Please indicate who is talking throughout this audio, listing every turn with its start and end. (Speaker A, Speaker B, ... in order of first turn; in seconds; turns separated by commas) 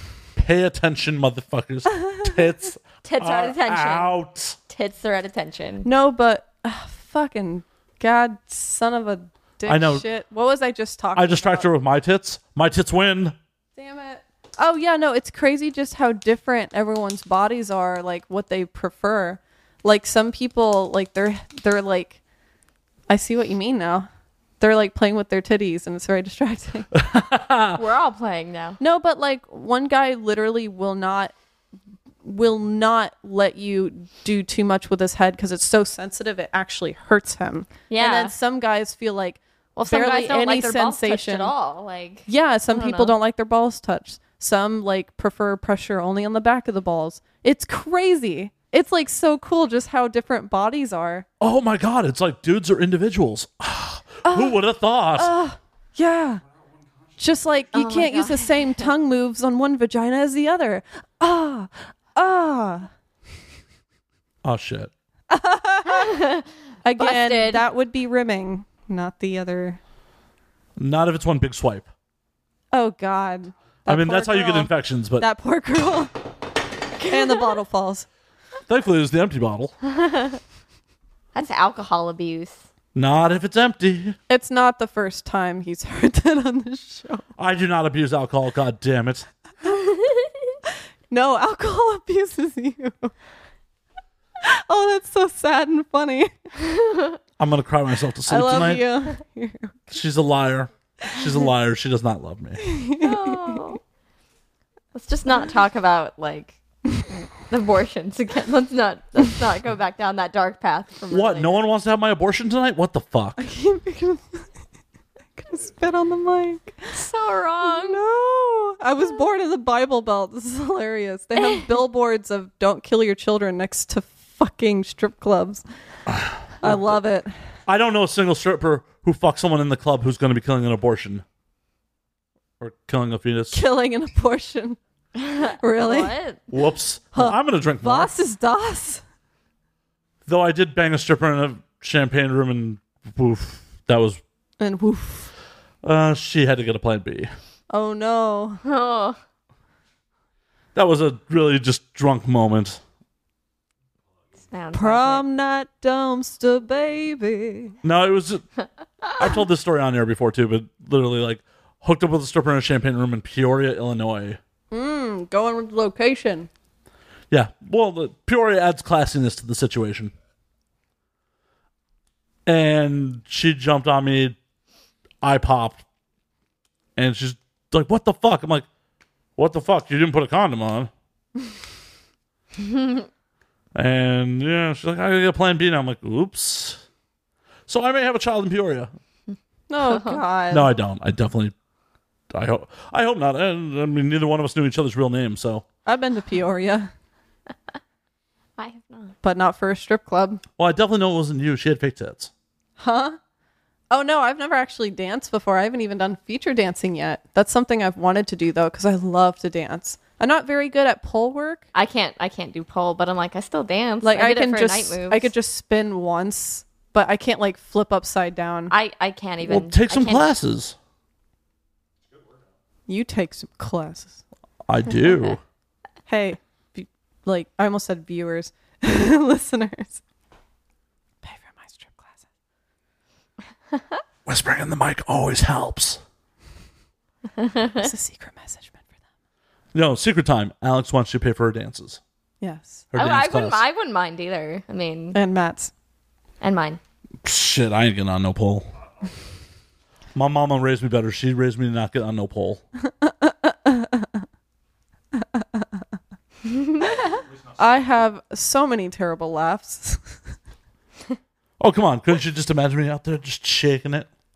Speaker A: 0.3-4.6, Speaker B: 3.0-4.1, Speaker B: 4.7-5.9, Speaker C: 5.8-11.7, Speaker A: 9.7-10.0, Speaker A: 11.1-13.3, Speaker C: 13.8-22.2, Speaker C: 23.1-24.1, Speaker C: 24.6-27.0, Speaker A: 26.9-27.8, Speaker B: 27.8-28.8, Speaker C: 28.8-31.3, Speaker C: 32.2-41.5, Speaker B: 37.9-38.3, Speaker B: 39.8-43.1, Speaker C: 42.3-51.2, Speaker A: 51.4-55.3, Speaker C: 54.2-54.6, Speaker C: 55.1-56.4, Speaker C: 57.2-62.9, Speaker B: 57.7-58.9, Speaker A: 64.4-64.9, Speaker C: 65.3-66.2, Speaker B: 65.9-66.4, Speaker C: 66.8-69.8, Speaker B: 67.0-67.6, Speaker A: 70.8-71.9, Speaker C: 72.7-76.1, Speaker A: 73.9-75.3, Speaker C: 77.0-78.1, Speaker A: 78.7-79.7, Speaker B: 79.9-80.4, Speaker B: 81.3-82.6, Speaker A: 82.9-84.2, Speaker C: 84.3-87.2, Speaker A: 87.4-89.3, Speaker B: 89.9-90.3, Speaker C: 91.1-93.1, Speaker C: 94.4-96.3, Speaker B: 96.7-97.2, Speaker A: 97.4-98.9, Speaker C: 98.3-99.9, Speaker A: 99.9-102.6, Speaker C: 102.6-103.6, Speaker B: 103.0-103.8, Speaker B: 104.9-106.6, Speaker B: 107.3-111.6, Speaker A: 111.1-113.4, Speaker C: 113.4-114.4, Speaker C: 115.4-117.0, Speaker B: 116.9-118.0, Speaker C: 117.6-125.6, Speaker A: 126.1-127.0, Speaker C: 126.6-127.3, Speaker A: 127.7-131.2, Speaker A: 132.6-133.6, Speaker C: 133.5-134.8, Speaker B: 135.2-136.4, Speaker C: 135.6-136.2, Speaker A: 136.5-138.1, Speaker C: 137.1-139.0, Speaker A: 140.3-144.2, Speaker C: 144.6-145.3, Speaker A: 145.8-147.3, Speaker C: 147.7-148.6, Speaker B: 148.6-149.2, Speaker A: 150.7-152.8, Speaker B: 154.5-155.2, Speaker C: 154.7-157.8, Speaker A: 157.8-158.4, Speaker A: 159.2-164.4, Speaker C: 164.7-166.5, Speaker A: 167.3-170.1, Speaker A: 172.4-174.3, Speaker A: 175.2-175.8, Speaker A: 176.9-178.7, Speaker A: 179.4-180.9, Speaker B: 182.6-183.0, Speaker A: 183.7-186.8, Speaker A: 187.7-188.9, Speaker C: 189.7-190.7, Speaker B: 189.8-190.2, Speaker A: 190.5-191.5, Speaker A: 192.3-195.6, Speaker C: 195.8-196.9, Speaker B: 198.6-199.1, Speaker C: 199.2-200.4, Speaker A: 200.6-202.3, Speaker C: 202.8-203.2, Speaker C: 203.9-211.6, Speaker B: 211.7-215.3, Speaker C: 214.0-218.7, Speaker B: 218.7-220.3, Speaker A: 219.4-220.8, Speaker C: 222.9-224.2, Speaker A: 224.7-225.4, Speaker C: 226.1-230.0, Speaker C: 231.2-232.2, Speaker A: 234.2-236.0, Speaker B: 237.4-237.9, Speaker C: 237.8-238.8, Speaker A: 239.7-242.0, Speaker C: 242.4-242.8, Speaker A: 242.9-243.6, Speaker B: 242.9-245.2, Speaker C: 245.1-245.7, Speaker B: 246.4-246.8, Speaker A: 247.2-248.7, Speaker A: 250.2-252.6, Speaker C: 253.0-254.2, Speaker C: 255.1-255.8, Speaker B: 256.4-257.0, Speaker C: 256.8-260.2, Speaker A: 261.6-264.1